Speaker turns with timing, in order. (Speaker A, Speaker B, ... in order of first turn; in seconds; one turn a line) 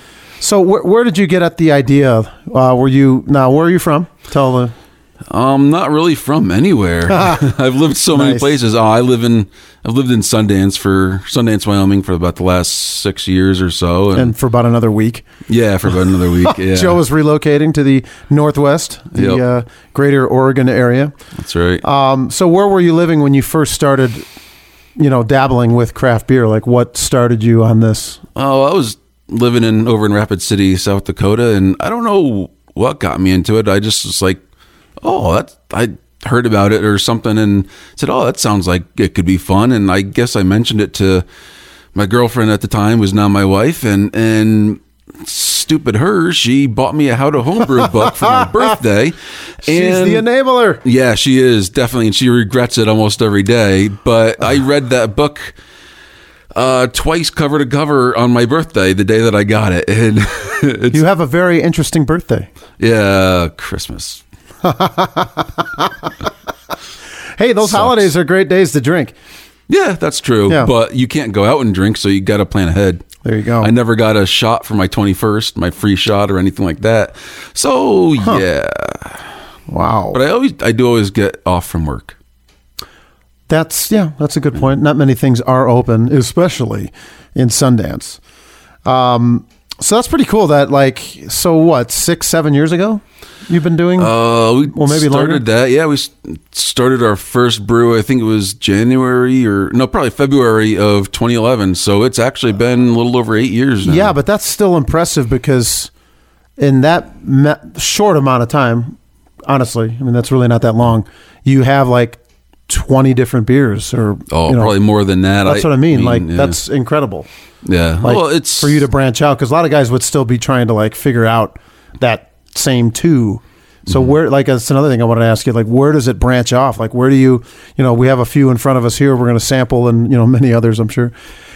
Speaker A: 0.4-4.7
Speaker B: 5.3-14.3
Speaker A: 8.1-8.5
Speaker A: 14.1-15.2
Speaker B: 15.5-17.0
Speaker A: 16.4-21.1
Speaker B: 19.1-19.4
Speaker B: 21.4-21.8
Speaker A: 21.8-24.2
Speaker A: 25.0-28.2
Speaker B: 28.4-34.4
Speaker B: 35.0-41.2
Speaker B: 41.9-50.2
Speaker A: 49.6-50.8
Speaker B: 50.8-55.5
Speaker B: 56.5-61.0
Speaker A: 60.9-62.5
Speaker B: 62.8-64.2
Speaker A: 64.6-65.9
Speaker A: 67.4-69.1
Speaker B: 67.6-68.1
Speaker B: 69.7-73.0
Speaker A: 73.2-73.7
Speaker B: 73.6-79.2
Speaker A: 79.7-80.2
Speaker B: 80.1-82.2
Speaker A: 83.5-88.2
Speaker A: 88.8-95.4
Speaker B: 94.0-104.1
Speaker A: 103.8-105.9
Speaker A: 106.6-114.7
Speaker B: 114.3-116.6
Speaker A: 115.4-117.3
Speaker B: 117.6-118.8
Speaker A: 118.0-131.1
Speaker B: 123.9-124.1